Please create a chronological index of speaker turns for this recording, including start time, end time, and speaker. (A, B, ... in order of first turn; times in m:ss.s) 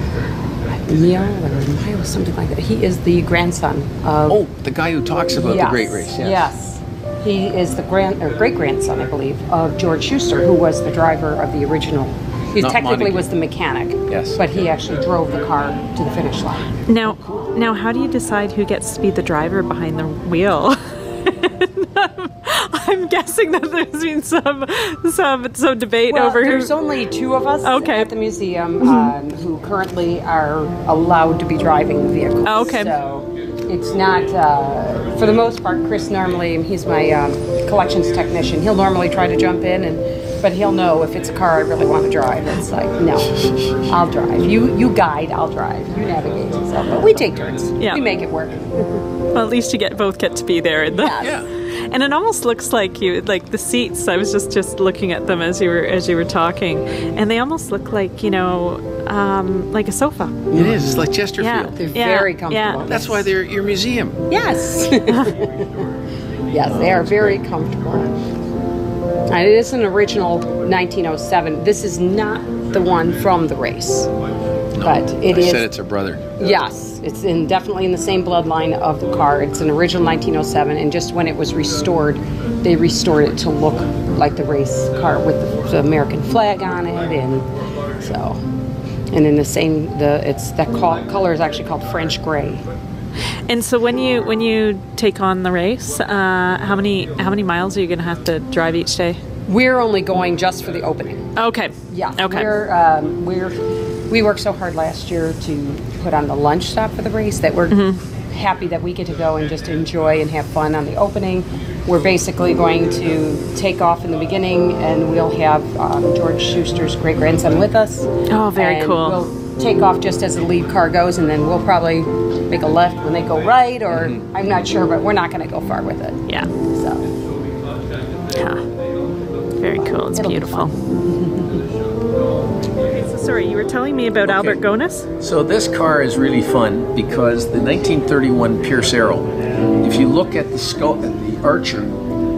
0:00.7-0:04.4 A
0:04.3-0:06.5 B
0:05.3-0:16.7 A
0:12.6-0:13.3 B
0:14.1-0:14.6 B
0:16.9-0:26.7 C
0:17.0-0:17.5 B
0:26.1-0:43.3 A
0:27.6-0:28.1 C
0:28.8-0:29.1 C
0:32.4-0:32.9 C
0:43.2-0:43.8 B
0:43.9-0:49.0 A
0:47.8-0:48.0 C
0:49.3-1:00.5 C
0:50.9-0:51.4 A
0:51.2-0:51.5 B
1:00.5-1:01.1 A
1:00.5-1:01.8 B
1:01.4-1:02.8 C
1:01.8-1:03.3 A
1:02.9-1:04.2 B
1:04.3-1:05.8 A
1:06.5-1:08.1 A
1:06.6-1:07.4 B
1:09.3-1:14.1 A
1:14.8-1:16.2 B
1:14.8-1:15.7 A
1:16.4-1:28.4 A
1:29.1-1:32.6 A
1:33.5-1:39.2 C
1:39.5-1:41.2 A
1:41.4-1:42.5 C
1:41.9-1:43.6 A
1:44.1-2:07.1 A
1:47.7-1:48.0 C
1:58.3-1:59.2 C
2:03.9-2:04.2 B
2:08.3-2:08.6 C
2:09.6-2:10.7 C
2:09.8-2:11.7 A
2:12.9-2:15.1 C
2:14.2-2:14.6 B
2:15.2-2:19.3 B
2:19.8-2:21.9 B